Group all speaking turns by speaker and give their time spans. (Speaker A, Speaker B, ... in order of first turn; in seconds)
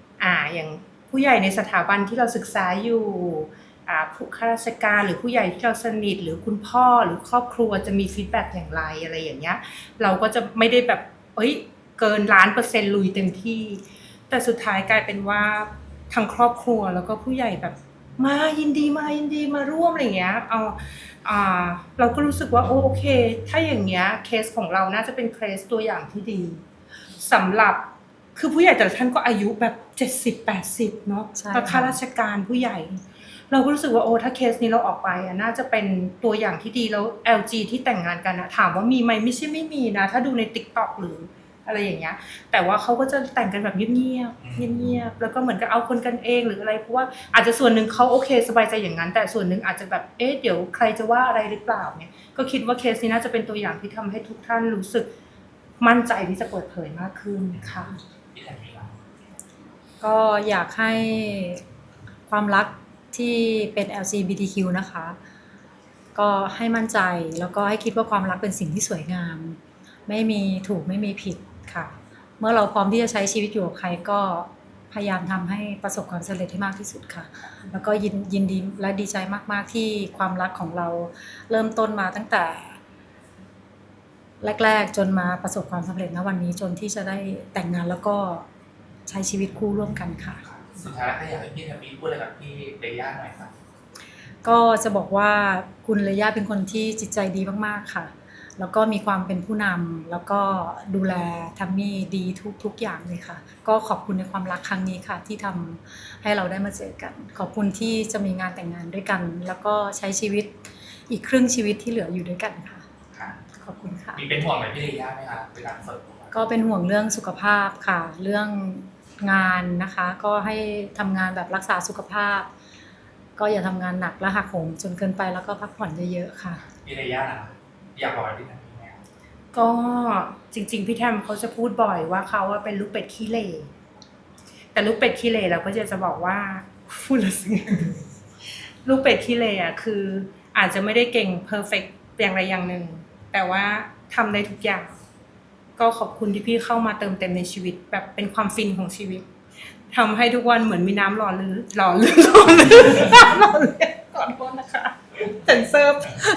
Speaker A: 0.2-26.6, 27.2-55.1, 55.8-57.9, 129.5-133.7, 134.7-138.0, 138.8-145.0, 145.8-149.2, 149.9-156.2
Speaker B: 31.3-32.0, 60.0-61.6, 62.3-65.2, 66.1-82.8, 84.4-88.5, 89.0-90.4, 94.4-110.5, 111.1-112.8, 113.5-114.2, 116.3-122.5, 123.4-126.6
Speaker C: 44.4-44.9, 57.6-59.0, 90.4-93.5, 113.1-113.4, 114.1-116.3, 126.8-129.0